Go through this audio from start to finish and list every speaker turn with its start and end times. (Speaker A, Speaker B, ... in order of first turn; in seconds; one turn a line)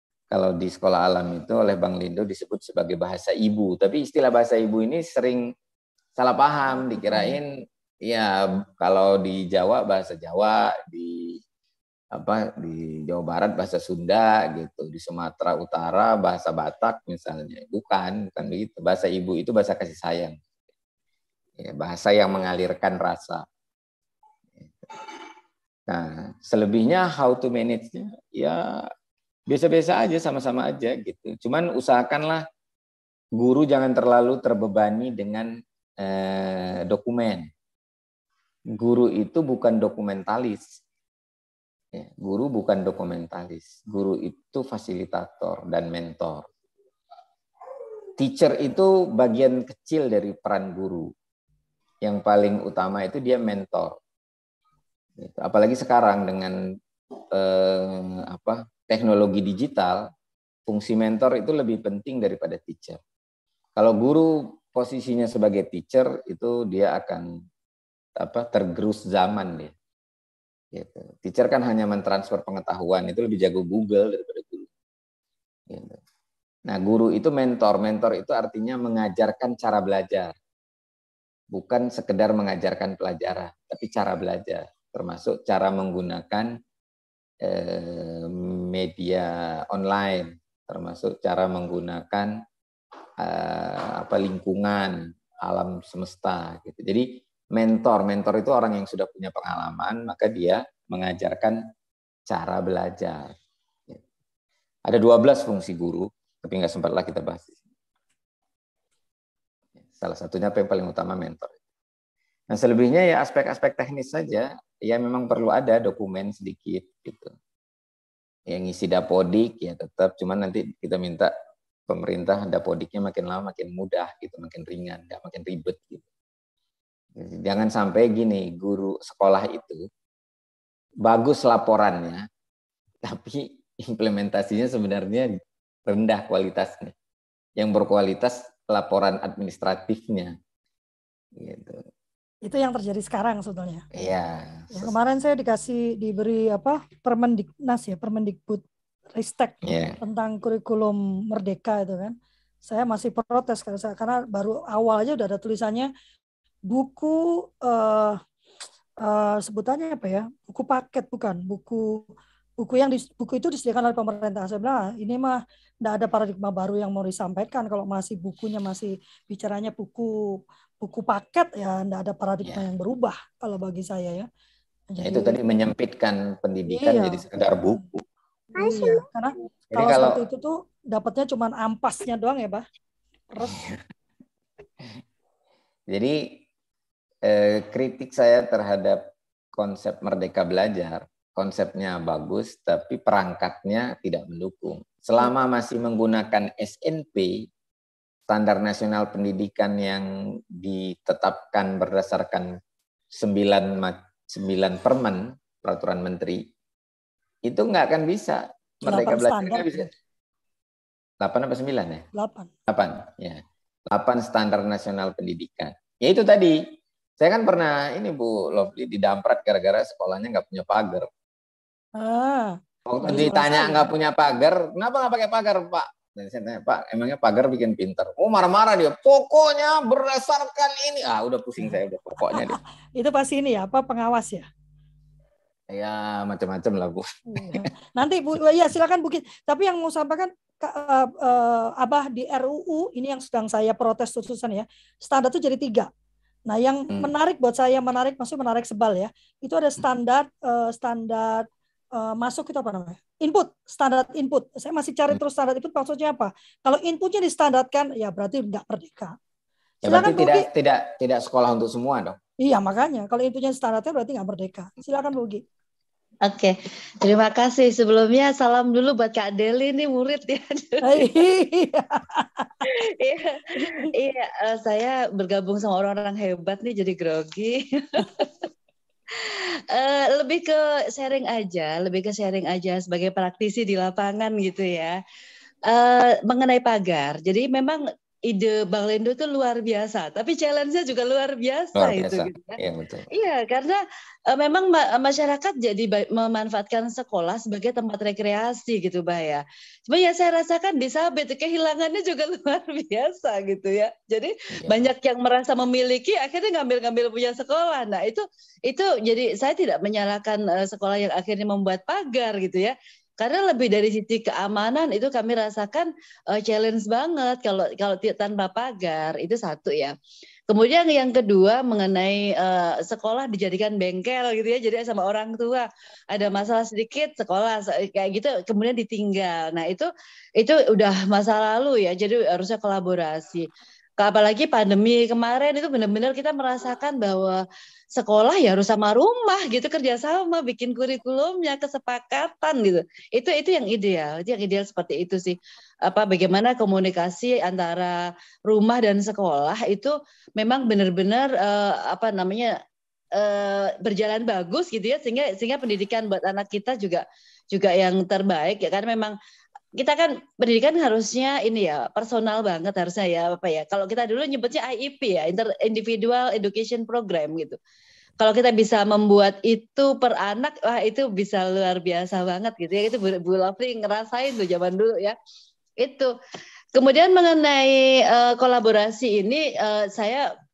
Speaker A: 0.3-5.5
Speaker A: 6.2-7.5
Speaker B: 7.1-7.4
Speaker A: 8.0-11.4
Speaker A: 12.1-20.4
Speaker A: 21.6-23.4
Speaker A: 24.6-24.9
Speaker A: 25.9-28.9
Speaker A: 29.5-32.4
Speaker A: 33.4-37.5
Speaker A: 38.8-40.8
Speaker A: 41.9-46.5
Speaker A: 48.2-51.1
Speaker A: 52.0-54.0
Speaker A: 55.2-56.6
Speaker A: 57.3-60.1
Speaker A: 60.7-63.0
Speaker A: 63.8-67.3
Speaker A: 68.2-69.7
Speaker A: 70.7-74.7
Speaker A: 75.7-76.0
Speaker A: 76.7-80.3
Speaker A: 81.5-86.5
Speaker A: 87.4-92.4
Speaker A: 93.2-101.6
Speaker A: 102.3-103.3
Speaker A: 104.9-107.6
Speaker A: 110.0-111.6
Speaker A: 112.5-117.3
Speaker A: 118.5-121.3
Speaker A: 121.9-126.0
Speaker A: 127.2-129.8
Speaker A: 131.0-132.2
Speaker A: 133.0-136.9
Speaker A: 137.6-140.3
Speaker A: 141.4-141.8
Speaker B: 142.4-143.8
Speaker A: 143.9-144.9
Speaker B: 144.7-155.9
Speaker A: 149.6-150.0
Speaker B: 156.7-158.2
Speaker B: 159.0-174.3
Speaker B: 174.9-175.4
Speaker A: 175.0-178.0
Speaker B: 176.7-177.2
Speaker B: 178.6-182.6
Speaker A: 179.7-180.2
Speaker B: 183.3-183.6
Speaker A: 183.4-183.8
Speaker A: 185.9-186.4
Speaker A: 187.2-197.5
Speaker A: 198.3-202.6
Speaker A: 203.1-206.5
Speaker A: 207.4-209.9
Speaker B: 208.8-209.9
Speaker A: 211.2-212.0
Speaker B: 212.1-212.5
Speaker A: 212.7-216.6
Speaker A: 217.2-221.1
Speaker B: 222.0-223.8
Speaker A: 222.9-232.6
Speaker B: 232.3-234.4
Speaker A: 235.7-237.7
Speaker B: 237.3-245.9
Speaker B: 246.5-259.2
Speaker A: 259.8-262.2
Speaker B: 259.8-260.5
Speaker B: 262.4-265.4
Speaker C: 266.2-271.1
Speaker B: 270.8-272.6
Speaker C: 272.6-278.3
Speaker B: 273.6-273.9
Speaker C: 279.1-285.0
Speaker C: 285.6-292.6
Speaker A: 291.8-293.1
Speaker C: 293.1-319.9
Speaker A: 304.6-304.9
Speaker C: 320.5-333.5
Speaker C: 334.0-337.4
Speaker C: 337.9-352.5
Speaker C: 353.1-359.1
Speaker C: 359.8-367.6
Speaker C: 368.2-375.1
Speaker C: 375.8-376.1
Speaker C: 376.7-380.3